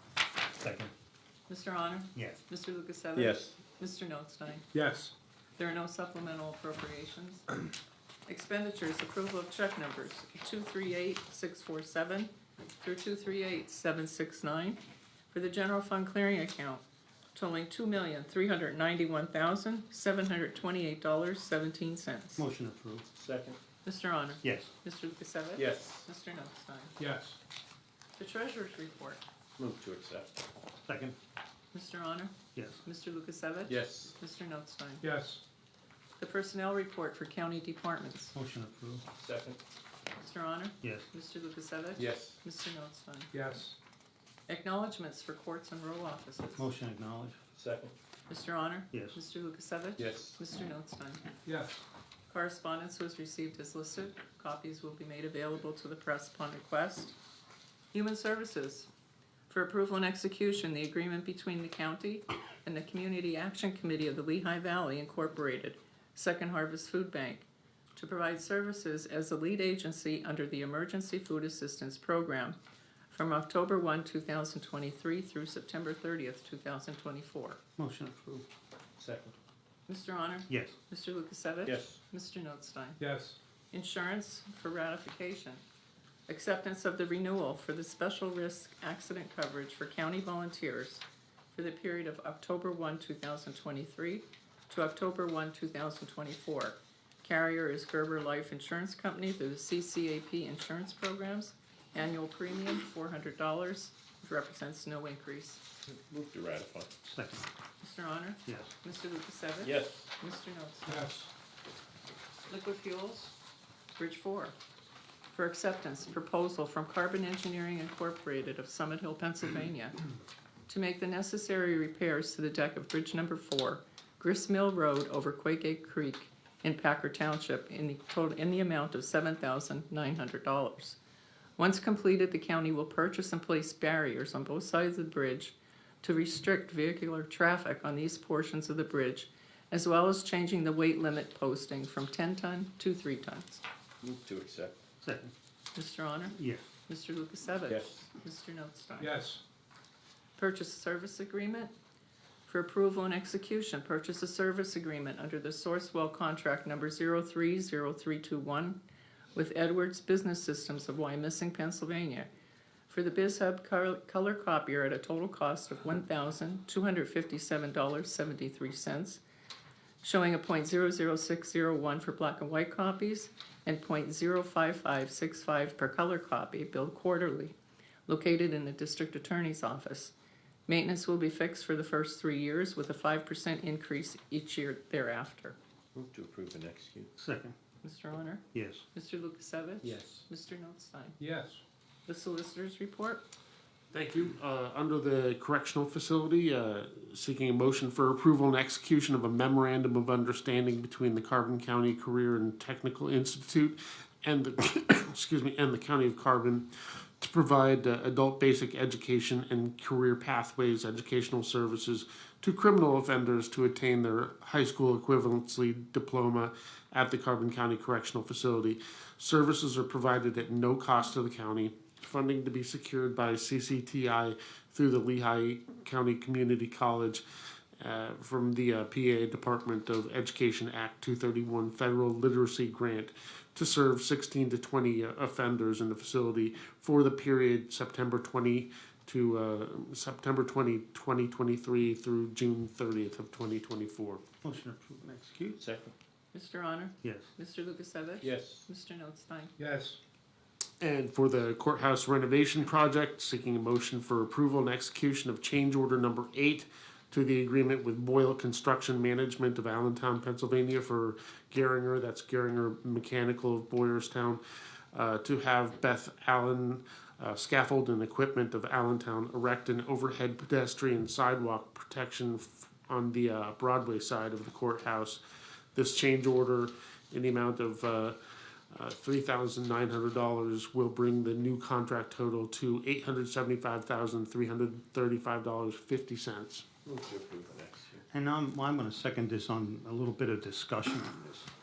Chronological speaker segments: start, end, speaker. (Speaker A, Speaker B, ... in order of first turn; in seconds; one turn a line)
Speaker A: 0.6-0.9
Speaker B: 1.5-4.7
Speaker C: 3.1-3.6
Speaker D: 4.7-5.1
Speaker B: 5.6-7.5
Speaker B: 8.3-14.8
Speaker B: 15.3-22.4
Speaker A: 22.4-23.1
Speaker C: 23.2-23.6
Speaker B: 23.9-26.9
Speaker A: 24.4-24.7
Speaker C: 25.6-26.1
Speaker D: 27.0-27.4
Speaker B: 28.2-29.2
Speaker C: 29.6-30.4
Speaker A: 30.9-31.1
Speaker B: 31.7-32.3
Speaker A: 32.5-32.8
Speaker B: 32.8-35.1
Speaker C: 33.7-34.1
Speaker D: 35.0-35.4
Speaker B: 36.2-38.3
Speaker A: 38.4-39.0
Speaker C: 39.2-39.6
Speaker B: 40.2-43.3
Speaker A: 40.8-41.1
Speaker C: 42.0-42.4
Speaker D: 43.3-43.8
Speaker B: 44.5-46.6
Speaker A: 46.6-47.4
Speaker C: 47.5-47.9
Speaker B: 48.3-51.3
Speaker A: 48.9-49.2
Speaker C: 50.0-50.4
Speaker D: 51.5-51.8
Speaker B: 52.3-57.1
Speaker B: 57.9-58.9
Speaker B: 59.5-72.6
Speaker B: 73.1-77.6
Speaker A: 77.8-78.5
Speaker C: 79.0-79.3
Speaker B: 79.9-83.0
Speaker A: 80.5-80.8
Speaker C: 81.7-82.0
Speaker D: 83.0-83.4
Speaker B: 83.7-85.6
Speaker B: 86.3-105.6
Speaker C: 105.9-106.9
Speaker A: 107.0-107.5
Speaker B: 107.8-111.1
Speaker A: 108.5-108.7
Speaker C: 109.6-110.1
Speaker D: 110.9-111.3
Speaker B: 112.5-113.3
Speaker B: 114.0-114.6
Speaker B: 115.3-120.0
Speaker B: 120.7-131.0
Speaker B: 131.6-143.6
Speaker C: 144.0-144.8
Speaker A: 145.0-145.3
Speaker B: 145.8-146.4
Speaker A: 146.4-146.6
Speaker B: 146.9-149.2
Speaker C: 147.7-148.1
Speaker D: 149.0-149.4
Speaker B: 150.4-151.7
Speaker B: 152.5-158.8
Speaker B: 159.3-162.3
Speaker B: 162.9-169.2
Speaker B: 170.0-177.6
Speaker B: 178.1-180.1
Speaker B: 180.7-185.6
Speaker C: 185.9-187.1
Speaker A: 187.2-187.5
Speaker B: 187.8-191.2
Speaker A: 188.5-188.8
Speaker C: 189.8-190.2
Speaker D: 191.2-191.6
Speaker B: 192.1-193.2
Speaker E: 193.9-206.7
Speaker E: 207.2-227.2
Speaker E: 227.8-244.2
Speaker A: 244.4-245.6
Speaker C: 245.6-245.9
Speaker B: 246.3-249.6
Speaker A: 247.0-247.3
Speaker C: 248.2-248.7
Speaker D: 249.6-250.0
Speaker E: 250.8-264.4
Speaker E: 264.9-275.2
Speaker E: 275.8-278.2
Speaker E: 278.7-286.7
Speaker C: 286.9-288.0
Speaker A: 288.1-291.5